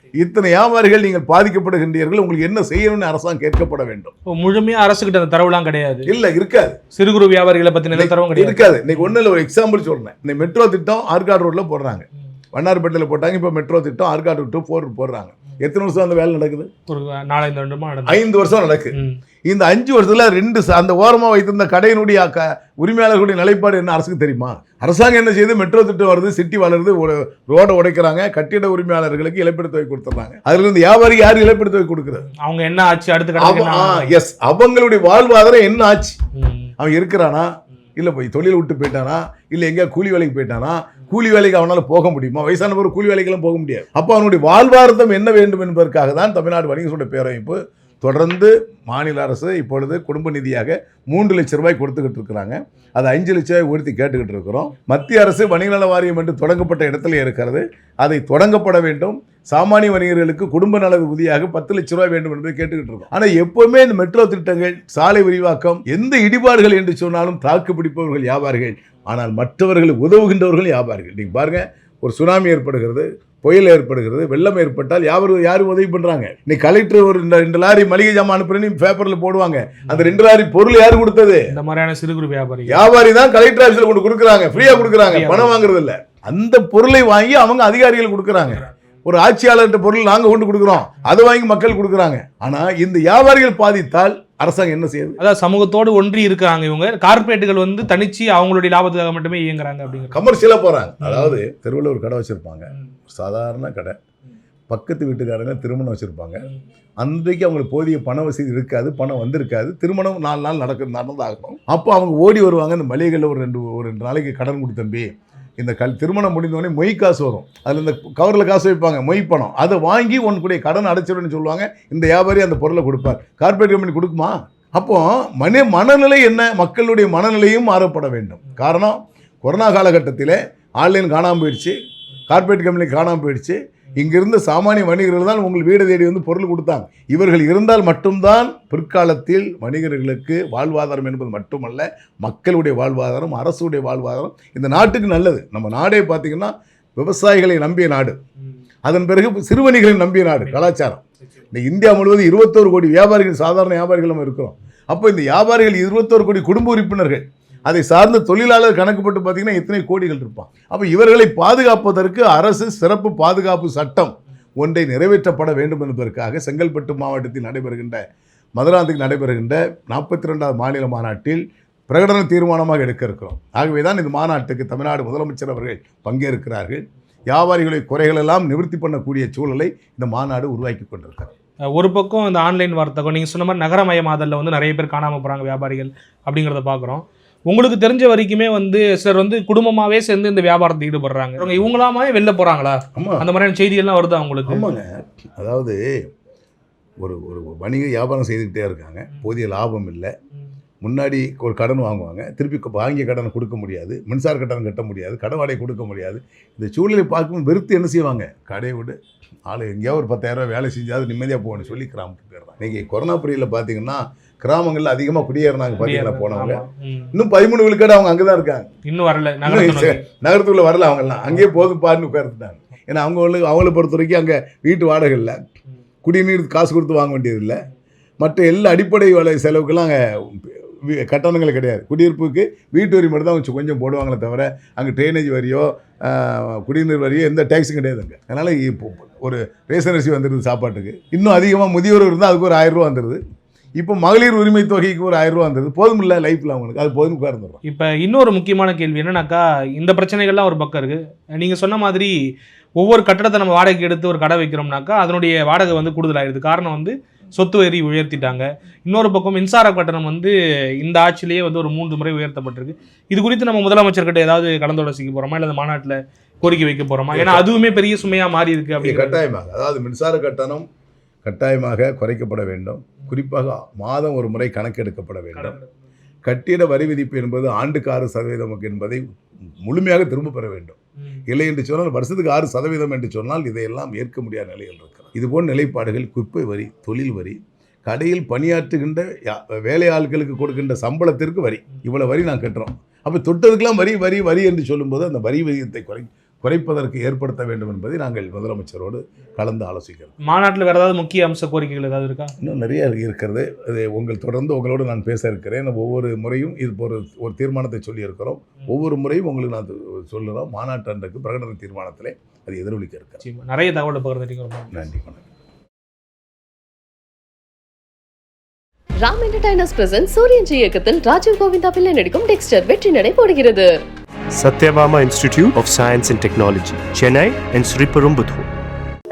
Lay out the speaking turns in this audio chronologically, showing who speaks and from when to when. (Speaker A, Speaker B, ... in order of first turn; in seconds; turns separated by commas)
Speaker A: 0.2-4.1, Speaker B: 4.3-6.1, Speaker A: 6.1-6.8, Speaker B: 6.9-9.1, Speaker A: 7.9-16.7, Speaker B: 16.9-18.2, Speaker A: 18.1-32.3, Speaker B: 32.2-34.1, Speaker A: 33.4-36.2, Speaker B: 36.4-36.7, Speaker A: 36.8-81.5, Speaker B: 79.9-80.2, Speaker B: 81.5-82.8, Speaker A: 82.7-95.2, Speaker B: 84.5-85.6, Speaker B: 95.2-100.2, Speaker A: 100.1-104.0, Speaker B: 101.0-101.4, Speaker A: 104.7-106.5, Speaker A: 107.0-131.8, Speaker A: 132.3-148.2, Speaker A: 148.8-151.0, Speaker A: 151.5-168.0, Speaker A: 168.6-181.3, Speaker B: 181.7-194.8, Speaker A: 192.9-193.3, Speaker A: 194.5-196.1, Speaker A: 197.0-200.1, Speaker A: 200.8-218.7, Speaker B: 215.8-217.1, Speaker B: 218.9-220.0, Speaker A: 219.4-225.4, Speaker B: 221.3-221.6, Speaker A: 226.0-227.6, Speaker A: 228.2-243.2, Speaker A: 243.8-247.6, Speaker B: 247.6-252.2, Speaker B: 252.8-269.2, Speaker A: 267.1-267.4, Speaker A: 268.8-270.7, Speaker A: 271.2-275.6, Speaker B: 275.4-275.6, Speaker A: 276.3-279.0, Speaker A: 279.6-280.8, Speaker A: 281.3-300.1, Speaker B: 300.2-302.3, Speaker A: 302.4-313.2, Speaker B: 313.2-314.9, Speaker A: 314.7-315.2, Speaker C: 319.0-323.8, Speaker D: 324.4-328.5